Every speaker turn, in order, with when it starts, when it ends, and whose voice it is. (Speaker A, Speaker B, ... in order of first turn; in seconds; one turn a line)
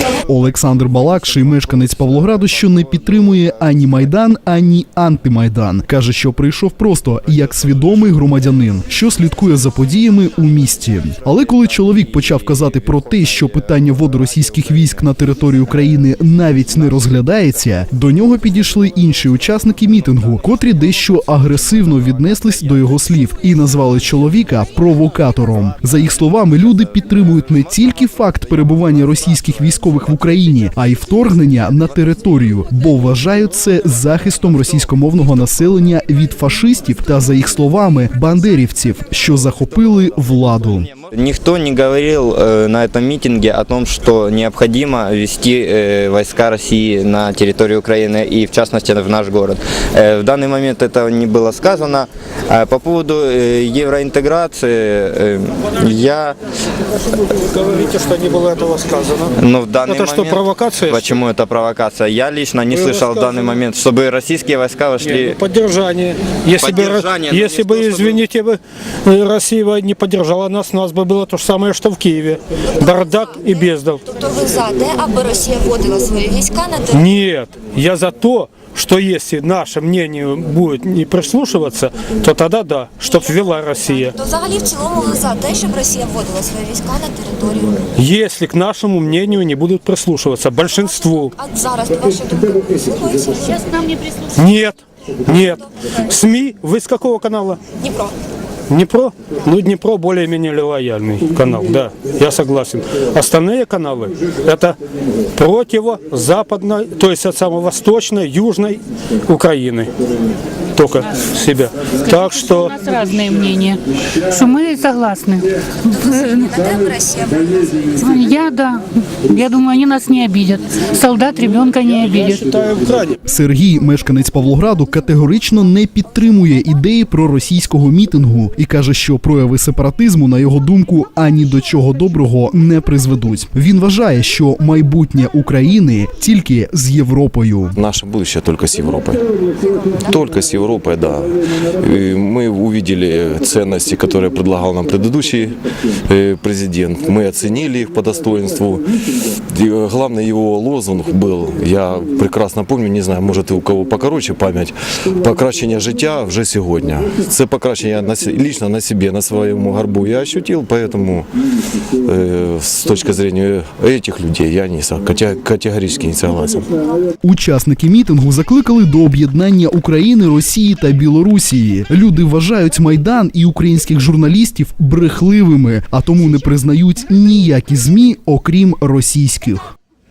Speaker A: 0.3-40.9
Speaker B: 41.0-56.4
Speaker C: 57.3-61.2
Speaker B: 59.4-65.4
Speaker C: 62.7-63.6
Speaker C: 65.0-74.0
Speaker B: 66.6-68.2
Speaker D: 72.8-77.0
Speaker C: 76.9-84.1
Speaker D: 83.0-87.8
Speaker C: 88.0-91.3
Speaker D: 90.6-93.7
Speaker C: 94.4-97.6
Speaker C: 98.7-104.8
Speaker C: 105.4-109.9
Speaker C: 110.8-112.8
Speaker E: 112.1-115.5
Speaker D: 115.9-118.2
Speaker E: 118.0-122.5
Speaker C: 121.9-123.2
Speaker A: 123.2-137.7
Speaker F: 137.8-139.2
Speaker D: 139.6-140.1
Speaker F: 140.0-145.6
Speaker F: 146.1-148.9
Speaker F: 149.5-161.3
Speaker F: 162.0-166.7
Speaker A: 167.2-179.7